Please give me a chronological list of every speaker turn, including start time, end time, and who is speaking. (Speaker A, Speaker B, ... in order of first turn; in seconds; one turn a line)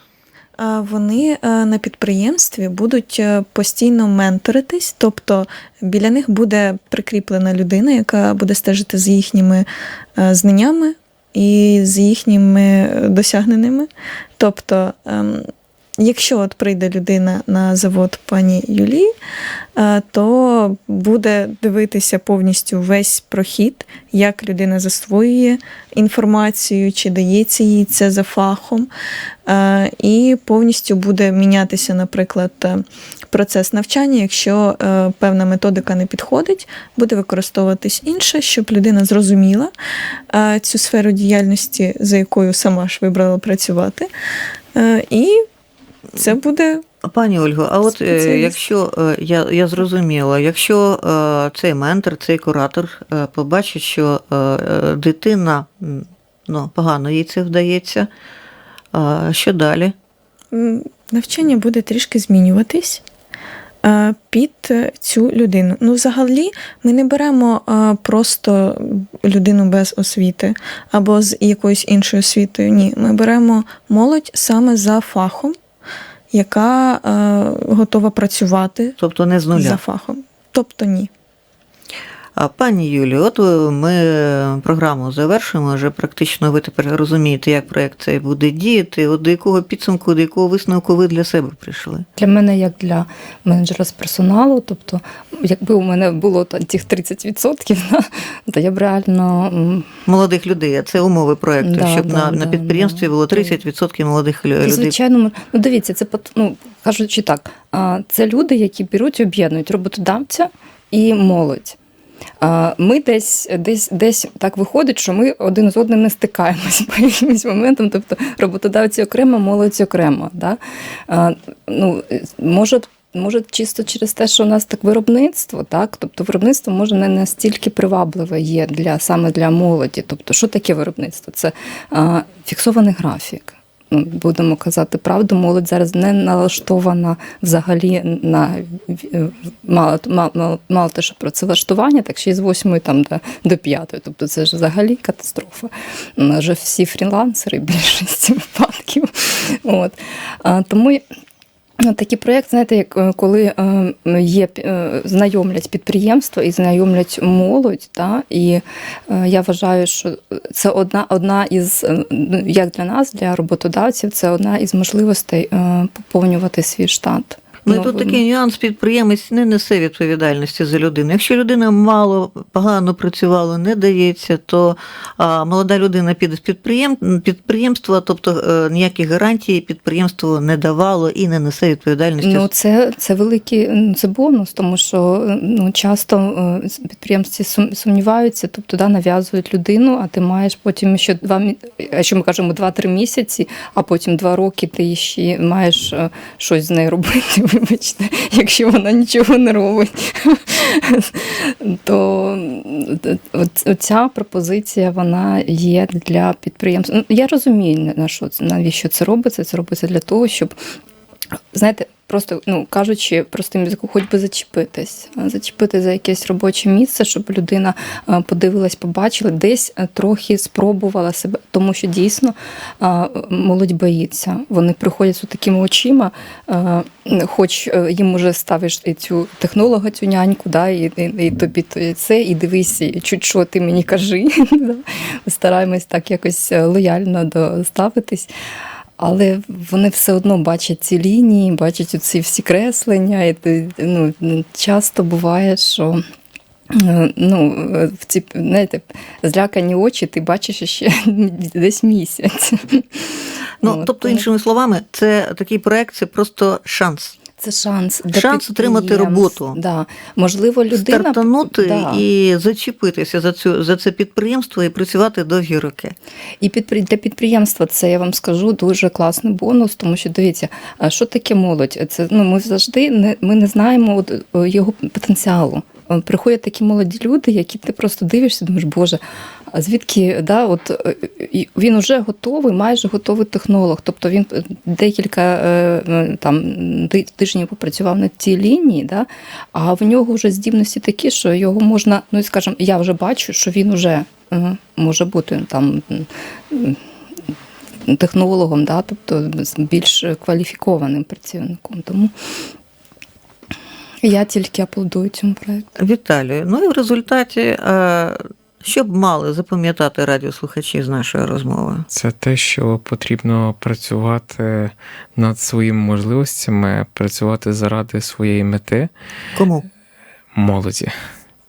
Speaker A: 0.6-15.5
Speaker A: 16.0-19.1
Speaker A: 19.8-28.9
Speaker A: 29.5-39.7
Speaker A: 40.3-44.1
Speaker A: 44.7-45.4
Speaker A: 46.1-46.8
Speaker B: 47.0-58.1
Speaker A: 47.9-48.5
Speaker B: 58.9-59.9
Speaker A: 60.5-63.0
Speaker A: 63.8-75.5
Speaker A: 76.3-79.0
Speaker B: 79.0-79.8
Speaker A: 79.5-81.1
Speaker B: 82.4-92.0
Speaker C: 92.2-99.9
Speaker B: 100.1-104.9
Speaker C: 101.6-103.6
Speaker C: 104.6-111.8
Speaker C: 112.4-151.0
Speaker C: 151.8-168.2
Speaker B: 167.7-182.5
Speaker C: 182.2-210.5
Speaker C: 211.5-238.3
Speaker C: 239.0-246.0
Speaker C: 246.7-254.2
Speaker B: 253.6-257.2
Speaker C: 257.4-262.0
Speaker B: 258.1-259.6
Speaker B: 260.7-265.9
Speaker C: 266.4-296.8
Speaker C: 297.8-302.1
Speaker C: 304.0-305.7
Speaker B: 305.8-311.9
Speaker D: 311.9-318.9
Speaker B: 319.3-319.7
Speaker D: 320.3-320.9